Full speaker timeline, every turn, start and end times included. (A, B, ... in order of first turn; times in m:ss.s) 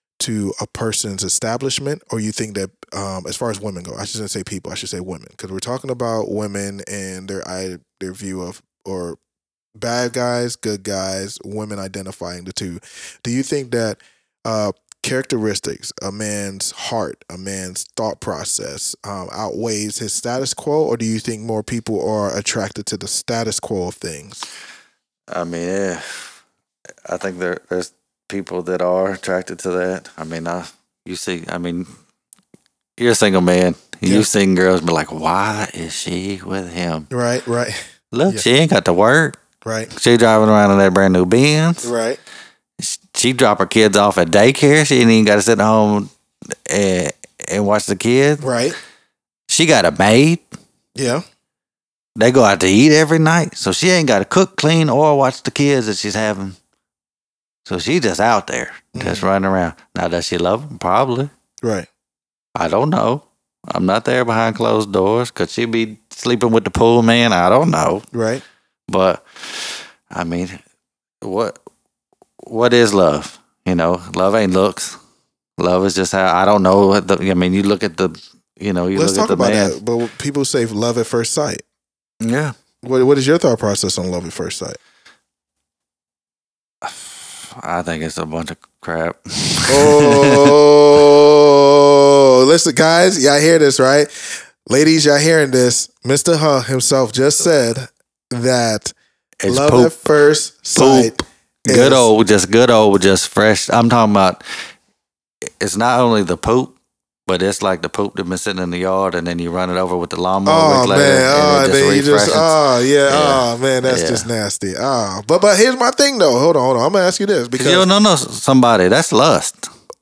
0:00.2-0:09.2 A
0:09.8-0:24.4 A
0:25.3-0:26.3 B
0:27.0-0:31.9 B
0:33.0-0:37.1 B
0:37.1-0:38.4 A
0:38.1-0:39.4 B
0:39.6-0:39.9 A
0:39.9-0:41.9 B
0:41.8-0:42.2 A
0:42.8-0:46.1 B
0:46.7-0:48.5 B
0:48.4-0:48.8 A
0:49.5-0:50.4 B
0:50.9-0:51.2 A
0:52.2-0:56.6 B
0:57.6-1:01.3 B
0:58.9-0:59.3 A
1:01.6-1:01.9 A
1:02.5-1:08.1 B
1:08.1-1:08.4 A
1:08.9-1:10.6 B
1:11.2-1:11.6 B
1:12.4-1:15.0 B
1:15.6-1:19.8 B
1:18.9-1:21.6 A
1:22.2-1:22.5 B
1:22.8-1:24.8 A
1:26.8-1:30.6 B
1:29.7-1:38.9 A
1:39.4-1:40.0 B
1:39.5-1:42.0 A
1:40.7-1:41.1 B
1:41.6-1:44.4 B
1:45.4-1:46.7 B
1:47.3-1:52.6 B
1:50.4-1:57.8 A
1:53.1-1:54.3 B
1:57.5-1:59.7 B